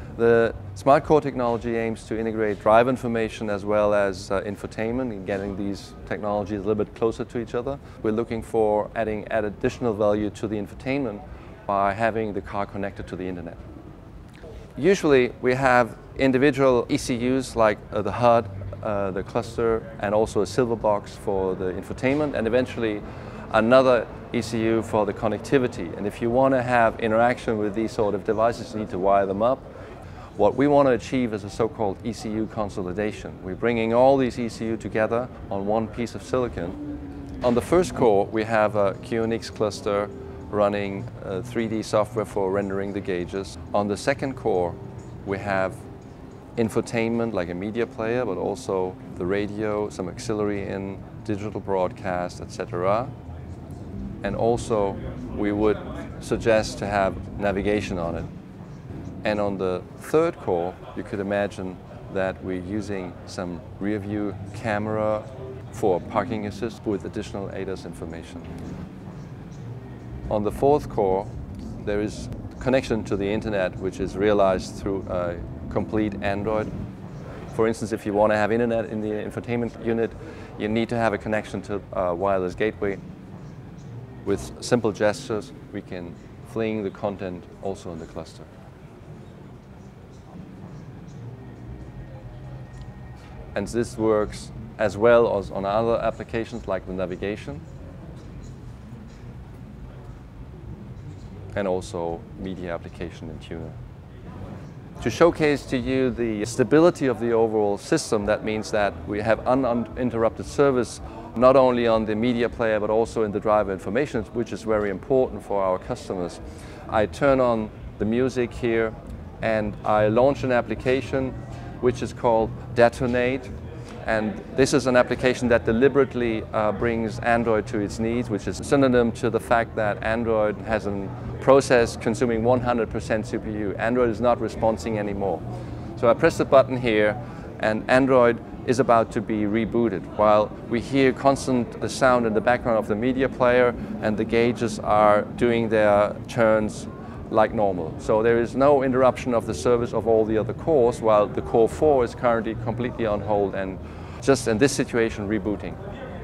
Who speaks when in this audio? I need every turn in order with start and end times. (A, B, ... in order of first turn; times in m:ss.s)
0:00.2-0:13.6 A
0:14.8-0:29.7 A
0:30.4-0:36.8 A
0:37.4-0:45.8 A
0:46.6-0:53.1 A
0:54.2-0:58.3 A
0:59.2-1:08.5 A
1:10.3-1:16.7 A
1:17.5-1:23.0 A
1:24.2-1:28.5 A
1:33.6-1:37.6 A
1:41.5-1:43.8 A
1:45.0-2:03.5 A
2:04.0-2:15.4 A
2:16.0-2:35.8 A